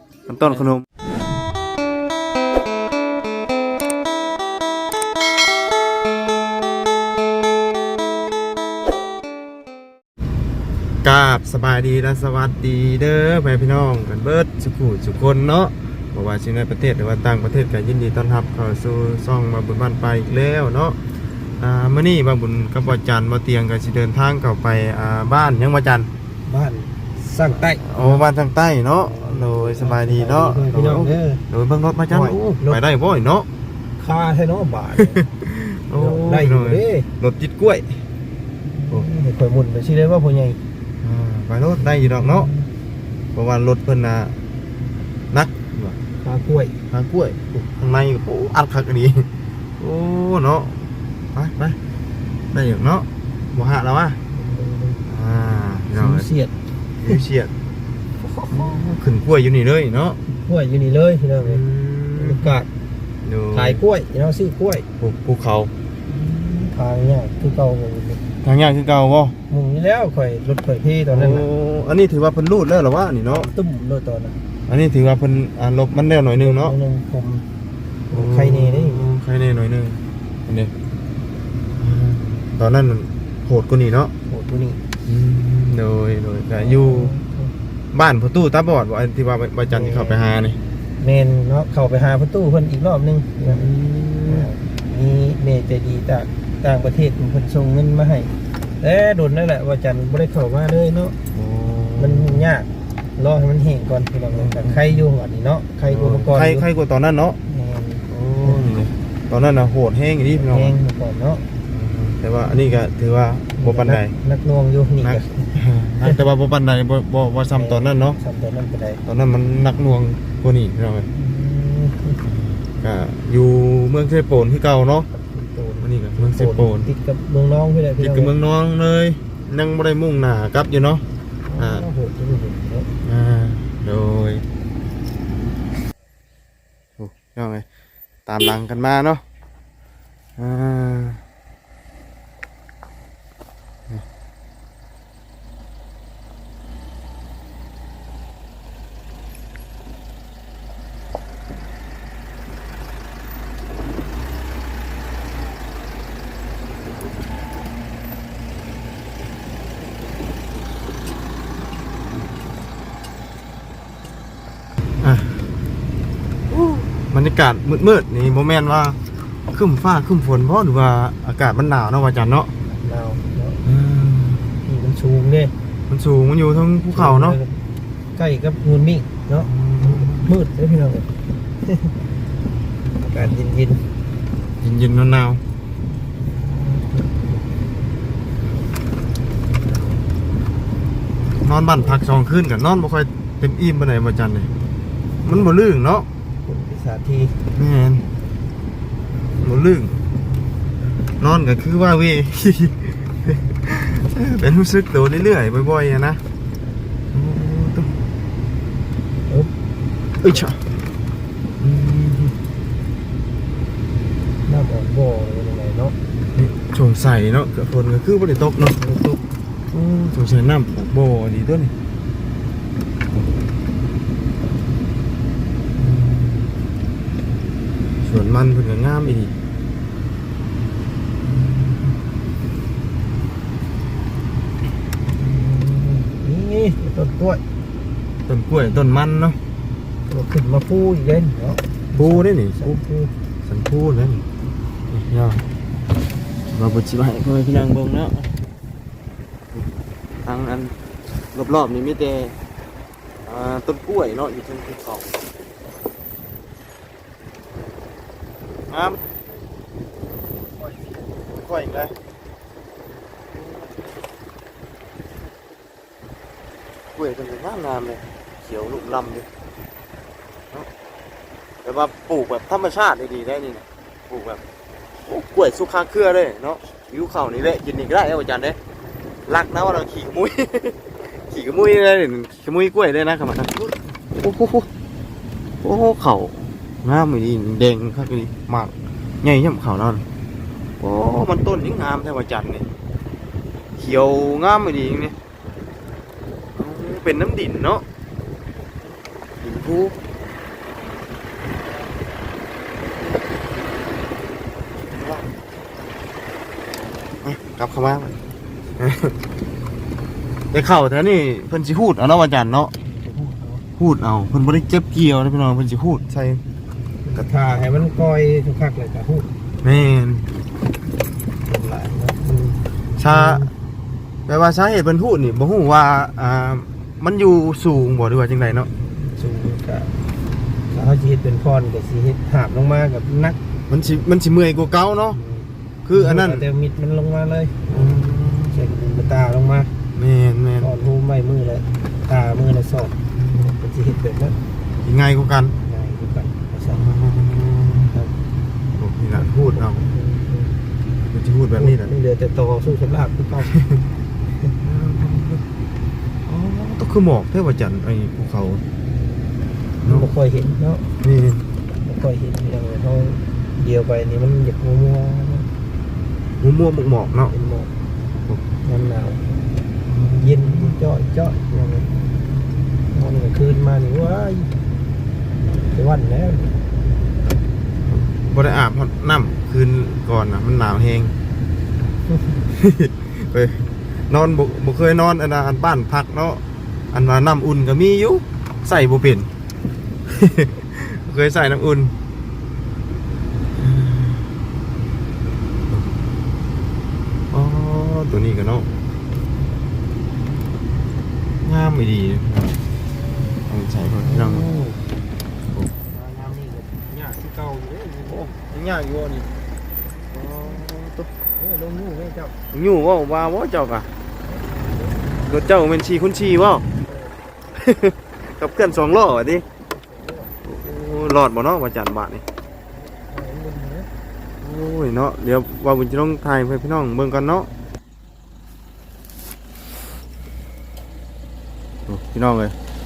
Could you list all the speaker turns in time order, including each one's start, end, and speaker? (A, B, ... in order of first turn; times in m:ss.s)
0:00.3-0:00.8 A
0:11.0-0:21.0 A
0:21.6-0:26.1 A
0:26.4-0:28.2 B
0:27.5-0:33.5 A
0:29.0-0:31.4 B
0:32.1-0:32.8 B
0:34.0-0:35.2 B
0:34.9-0:38.0 A
0:35.9-0:37.1 B
0:38.9-0:40.6 B
0:41.0-0:42.5 A
0:43.3-0:44.4 A
0:45.3-0:46.0 A
0:46.2-0:46.8 B
0:46.9-0:51.8 A
0:52.5-0:54.2 A
0:54.3-0:55.0 B
0:55.1-0:56.3 A
0:56.0-0:56.5 B
0:57.0-0:57.5 A
0:58.2-0:58.9 B
0:58.5-1:00.2 A
1:00.3-1:01.6 B
1:01.4-1:02.5 A
1:02.2-1:02.7 B
1:03.2-1:03.8 A
1:03.5-1:04.9 B
1:05.0-1:05.7 A
1:06.1-1:08.2 B
1:08.4-1:09.4 A
1:09.5-1:11.5 B
1:11.1-1:13.5 A
1:13.3-1:14.4 B
1:14.7-1:16.8 A
1:16.4-1:17.4 B
1:18.1-1:19.1 B
1:18.1-1:20.7 A
1:21.8-1:24.1 A
1:24.3-1:24.8 B
1:25.0-1:27.1 A
1:26.6-1:27.5 B
1:27.9-1:30.6 A
1:29.7-1:30.3 B
1:31.0-1:33.7 B
1:33.4-1:34.5 A
1:34.3-1:41.2 B
1:41.3-1:42.5 A
1:42.0-1:46.6 B
1:44.2-1:45.1 A
1:45.8-1:47.4 A
1:47.5-1:48.8 B
1:48.1-1:50.8 A
1:50.3-1:51.5 B
1:51.7-1:54.2 A
1:53.6-1:55.5 B
1:55.0-1:58.2 A
1:57.5-1:59.0 B
1:59.0-2:01.1 A
2:01.1-2:02.2 B
2:02.2-2:05.1 A
2:05.1-2:08.3 B
2:05.8-2:06.9 A
2:08.0-2:11.0 A
2:11.4-2:12.9 B
2:11.6-2:11.9 A
2:13.0-2:14.4 A
2:17.0-2:17.6 A
2:18.3-2:19.2 A
2:20.4-2:21.2 A
2:45.0-2:45.5 A
2:46.5-2:49.0 A
2:49.5-2:52.5 A
2:52.7-2:53.6 B
2:53.6-2:54.6 A
2:54.6-2:55.5 B
2:55.9-2:57.4 A
2:56.9-2:57.6 B
2:58.2-3:01.9 B
2:59.3-3:00.4 A
3:03.0-3:03.8 B
3:04.6-3:05.4 A
3:06.4-3:07.4 B
3:11.4-3:14.5 A
3:15.2-3:15.5 B
3:15.2-3:16.1 A
3:16.4-3:17.4 B
3:17.5-3:18.1 A
3:19.4-3:20.0 A
3:21.2-3:26.2 A
3:27.1-3:28.0 A
3:30.2-3:30.6 A
3:31.6-3:32.4 A
3:34.4-3:36.0 B
3:36.3-3:39.0 A
3:38.8-3:39.2 B
3:39.7-3:41.7 A
3:45.8-3:46.5 A
3:48.0-3:49.3 A
3:55.2-3:57.4 B
3:58.3-3:59.4 A
4:00.1-4:03.1 B
4:02.0-4:02.8 A
4:03.4-4:04.2 A
4:04.9-4:05.4 A
4:06.5-4:08.3 A
4:10.2-4:10.8 A
4:11.3-4:12.4 A
4:13.2-4:15.2 A
4:18.7-4:19.0 A
4:21.3-4:21.9 A
4:23.4-4:23.8 A
4:26.9-4:29.3 A
4:31.6-4:34.4 A
4:35.0-4:38.6 A
4:39.3-4:44.7 A
4:45.6-4:50.0 A
4:50.8-4:52.6 A
4:53.8-4:55.1 A
4:56.5-4:57.8 A
4:59.4-5:00.0 A
5:04.9-5:05.3 A
5:07.2-5:08.1 A
5:08.8-5:09.1 A
5:10.5-5:12.7 A
5:12.9-5:13.6 B
5:13.8-5:16.4 A
5:17.0-5:19.3 B
5:19.6-5:20.3 A
5:21.5-5:23.5 B
5:23.0-5:23.5 A
5:24.3-5:28.7 A
5:28.9-5:30.0 B
5:30.7-5:33.4 B
5:33.7-5:35.2 A
5:35.1-5:39.7 B
5:35.8-5:36.4 A
5:37.6-5:38.7 A
5:39.9-5:40.7 A
5:40.6-5:44.4 B
5:44.8-5:45.6 A
5:45.6-5:46.9 B
5:46.7-5:47.9 A
5:48.8-5:49.9 A
5:49.2-5:50.6 B
5:51.1-5:51.9 A
5:51.6-5:53.5 B
5:54.6-5:55.4 A
5:56.3-5:58.6 A
5:59.8-6:00.1 A
5:59.8-6:00.9 B
6:01.0-6:01.5 A
6:01.8-6:05.5 B
6:06.4-6:07.4 A
6:07.3-6:07.7 B
6:08.6-6:09.3 B
6:09.8-6:10.8 A
6:10.2-6:11.9 B
6:12.9-6:14.5 B
6:15.5-6:16.6 B
6:17.9-6:21.1 A
6:22.1-6:22.4 B
6:22.5-6:29.3 A
6:30.1-6:31.9 A
6:33.6-6:34.3 A
6:37.3-6:38.7 A
6:41.4-6:42.6 A
6:43.5-6:44.5 A
6:44.4-6:44.8 B
6:45.9-6:48.3 B
6:48.0-6:49.3 A
6:50.1-6:51.1 A
6:51.4-6:52.4 B
6:52.5-6:53.9 A
6:54.2-6:55.1 B
6:55.2-6:56.6 A
6:56.8-6:57.2 B
6:57.5-6:59.4 A
6:59.7-7:00.3 B
7:00.4-7:02.2 A
7:02.7-7:03.9 B
7:04.4-7:07.5 A
7:11.9-7:12.5 A